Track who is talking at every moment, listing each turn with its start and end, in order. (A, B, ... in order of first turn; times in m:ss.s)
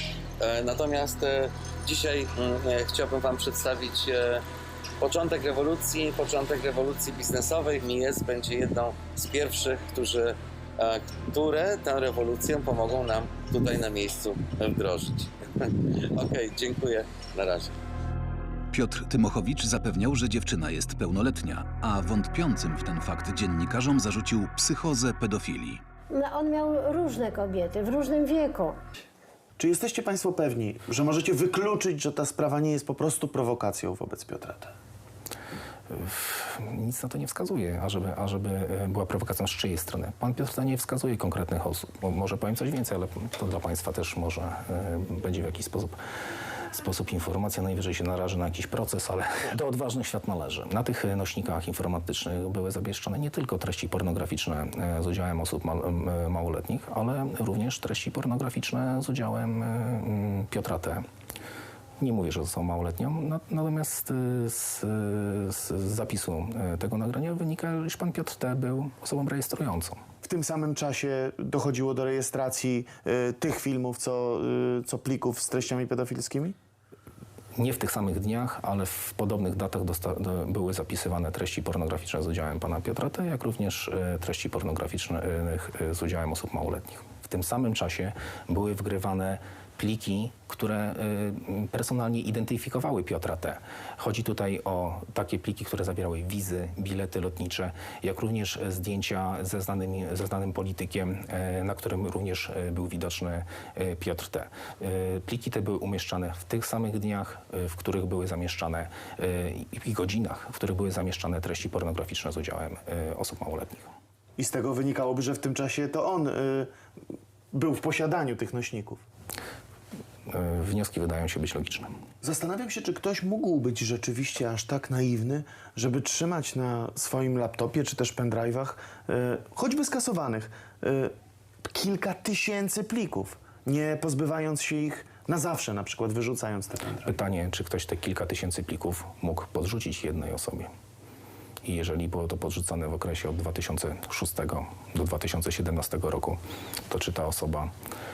0:00.4-0:04.4 A
0:05.0-0:17.7 A
0:18.7-0:25.8 B
0:26.1-0:28.8 C
0:29.6-0:34.7 D
0:35.9-0:46.0 E
0:46.7-1:01.0 E
1:02.0-1:10.0 E
1:10.2-1:16.5 D
1:17.6-1:53.9 E
1:54.4-1:56.7 D
1:57.5-1:59.0 D
2:00.3-2:01.9 E
2:02.2-2:11.1 D
2:11.6-2:17.1 D
2:17.0-2:20.7 E
2:21.6-2:26.4 E
2:26.9-2:27.7 E